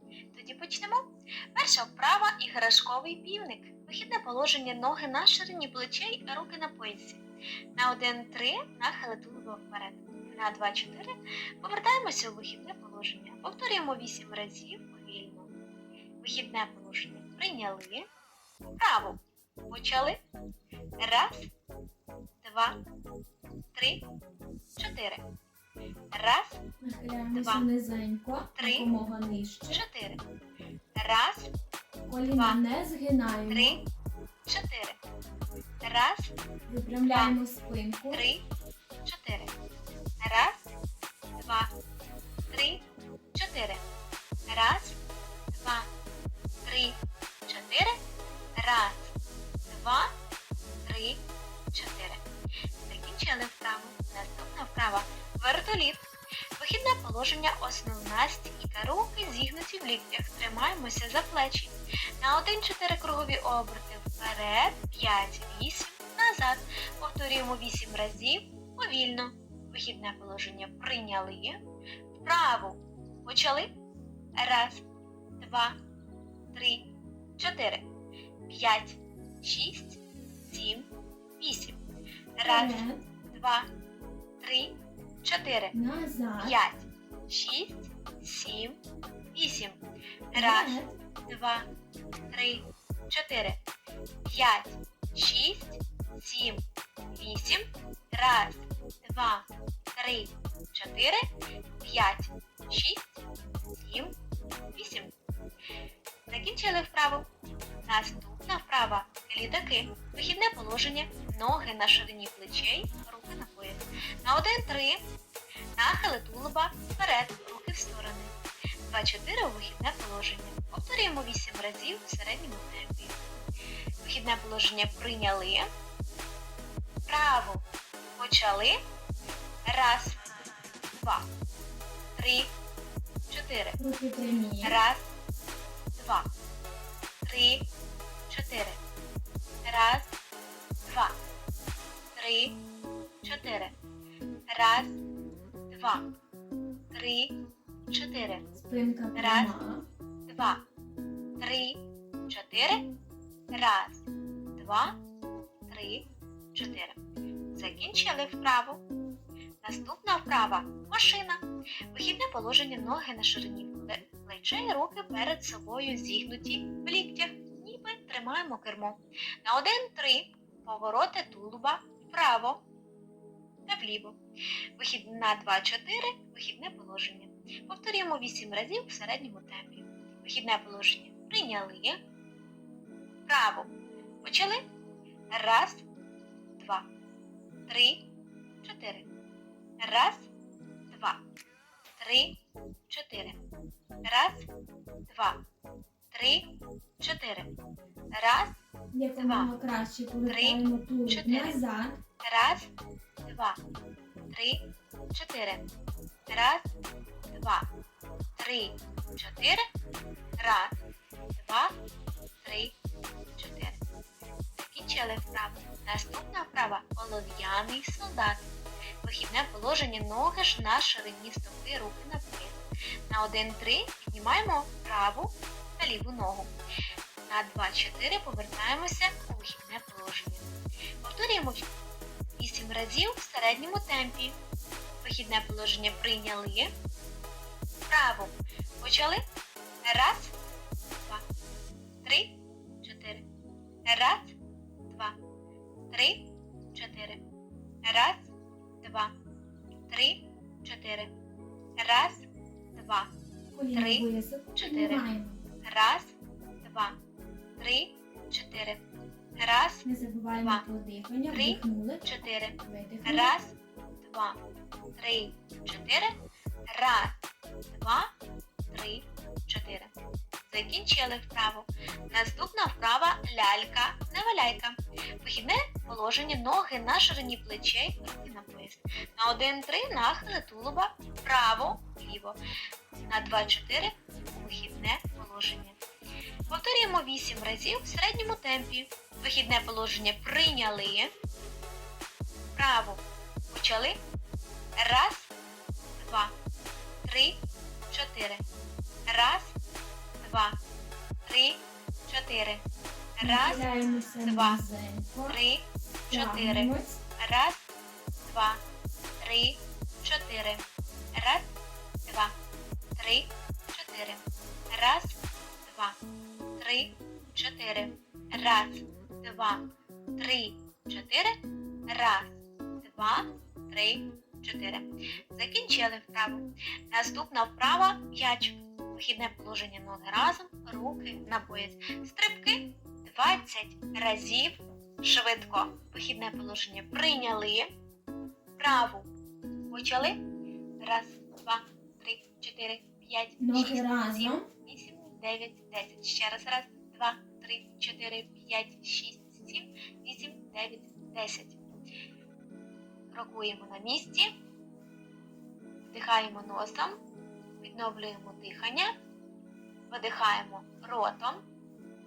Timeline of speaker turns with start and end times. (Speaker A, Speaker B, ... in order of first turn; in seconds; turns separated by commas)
Speaker A: 0.3-7.2, Speaker A: 7.8-15.5, Speaker A: 16.2-18.0, Speaker A: 18.8-20.2, Speaker A: 21.0-21.5, Speaker A: 22.4-22.8, Speaker A: 23.7-24.0, Speaker A: 24.8-25.2, Speaker A: 26.1-26.6, Speaker B: 26.8-29.8, Speaker A: 27.3-27.6, Speaker A: 28.6-28.9, Speaker A: 29.7-30.2, Speaker A: 30.9-31.5, Speaker B: 32.1-33.8, Speaker A: 32.3-32.6, Speaker A: 33.5-33.8, Speaker A: 34.5-35.0, Speaker A: 35.8-36.3, Speaker B: 36.7-38.2, Speaker A: 37.1-37.4, Speaker A: 38.1-38.4, Speaker A: 39.0-39.5, Speaker A: 40.2-40.7, Speaker A: 41.4-41.7, Speaker A: 42.5-42.8, Speaker A: 43.3-43.8, Speaker A: 44.5-45.0, Speaker A: 45.5-45.9, Speaker A: 46.6-48.0, Speaker A: 48.6-49.1, Speaker A: 49.7-50.1, Speaker A: 50.8-51.2, Speaker A: 51.7-52.2, Speaker A: 52.8-71.6, Speaker A: 72.1-73.7, Speaker A: 74.4-74.8, Speaker A: 75.4-75.8, Speaker A: 76.5-76.9, Speaker A: 77.4-77.9, Speaker A: 78.5-80.9, Speaker A: 81.4-81.8, Speaker A: 82.4-83.7, Speaker B: 82.4-83.0, Speaker A: 84.4-85.7, Speaker B: 85.7-86.5, Speaker A: 86.4-88.8, Speaker A: 89.3-89.8, Speaker A: 90.3-91.7, Speaker B: 90.3-90.9, Speaker A: 92.3-93.6, Speaker A: 94.2-96.6, Speaker A: 97.1-101.2, Speaker A: 101.8-103.2, Speaker A: 103.7-104.1, Speaker A: 104.8-105.1, Speaker A: 106.3-107.2, Speaker A: 107.8-115.0, Speaker A: 115.8-118.3, Speaker A: 118.9-123.2, Speaker A: 124.0-125.7, Speaker A: 127.1-127.6, Speaker A: 128.2-128.8, Speaker A: 129.7-130.2, Speaker A: 130.9-131.2, Speaker A: 132.2-132.5, Speaker A: 133.3-133.8, Speaker B: 133.8-134.7, Speaker A: 134.6-135.1, Speaker A: 135.9-136.3, Speaker A: 137.2-137.7, Speaker A: 138.3-138.8, Speaker A: 139.6-140.1, Speaker A: 140.9-141.1, Speaker A: 142.2-142.6, Speaker A: 143.2-143.7, Speaker A: 144.5-145.0, Speaker A: 145.7-146.1, Speaker A: 146.9-147.3, Speaker A: 147.9-148.5, Speaker B: 148.5-149.8, Speaker A: 149.1-149.5, Speaker A: 150.3-150.6, Speaker A: 151.4-152.8, Speaker A: 153.5-154.9, Speaker A: 155.7-157.0, Speaker A: 157.5-158.8, Speaker A: 159.6-161.4, Speaker A: 161.9-172.6, Speaker A: 173.7-174.2, Speaker A: 174.8-182.0, Speaker A: 183.3-183.7, Speaker A: 184.2-184.6, Speaker A: 185.3-185.8, Speaker A: 186.6-186.8, Speaker A: 187.7-188.1, Speaker A: 188.6-189.1, Speaker A: 189.8-190.3, Speaker A: 190.9-191.2, Speaker A: 192.0-192.3, Speaker A: 192.9-193.4, Speaker A: 194.0-194.5, Speaker A: 195.1-195.4, Speaker A: 196.1-196.5, Speaker A: 197.0-197.5, Speaker A: 198.1-198.6, Speaker B: 198.9-202.0, Speaker A: 199.2-199.5, Speaker A: 200.3-201.6, Speaker A: 202.2-202.7, Speaker A: 203.2-203.6, Speaker A: 204.3-204.6, Speaker A: 205.1-205.7, Speaker A: 206.3-206.7, Speaker A: 207.3-207.7, Speaker A: 208.3-209.6, Speaker A: 210.4-210.8, Speaker A: 211.4-211.7, Speaker A: 212.4-212.8, Speaker A: 213.3-213.8, Speaker A: 214.6-218.5, Speaker A: 219.0-226.5, Speaker A: 227.3-231.7, Speaker A: 232.4-234.3, Speaker A: 235.0-236.7, Speaker A: 237.9-239.2, Speaker A: 239.8-240.3, Speaker A: 242.0-243.2, Speaker A: 243.8-244.3, Speaker A: 244.9-245.2, Speaker A: 245.9-247.2, Speaker A: 247.8-248.3, Speaker A: 248.8-249.1, Speaker A: 249.9-251.1, Speaker A: 251.8-253.1, Speaker B: 253.5-255.4, Speaker A: 253.7-255.0, Speaker A: 255.6-257.0, Speaker A: 257.6-258.8, Speaker A: 259.4-260.6, Speaker B: 259.8-262.1, Speaker A: 261.3-264.4, Speaker B: 262.6-263.3, Speaker A: 265.0-266.1, Speaker A: 266.7-267.1, Speaker A: 267.7-268.1, Speaker A: 268.7-269.9, Speaker A: 270.5-282.4, Speaker A: 283.1-285.8, Speaker A: 286.5-291.1, Speaker A: 292.5-294.0, Speaker A: 294.8-295.3, Speaker A: 296.0-296.3, Speaker A: 297.0-298.4, Speaker A: 299.1-299.5, Speaker A: 300.2-300.6, Speaker A: 301.2-302.6, Speaker A: 303.2-303.6, Speaker B: 303.2-305.4, Speaker A: 304.2-304.6, Speaker A: 305.3-307.6, Speaker B: 306.1-307.0, Speaker A: 308.2-308.6, Speaker A: 309.2-310.6, Speaker A: 311.1-311.5, Speaker A: 312.1-312.3, Speaker A: 312.9-315.9, Speaker A: 316.6-319.6, Speaker A: 320.2-321.4, Speaker A: 321.9-337.7, Speaker A: 338.6-339.1, Speaker A: 339.7-340.1, Speaker A: 340.8-351.6, Speaker B: 343.4-344.5, Speaker A: 353.1-354.3, Speaker A: 355.9-357.0, Speaker A: 357.6-358.9, Speaker A: 359.9-361.4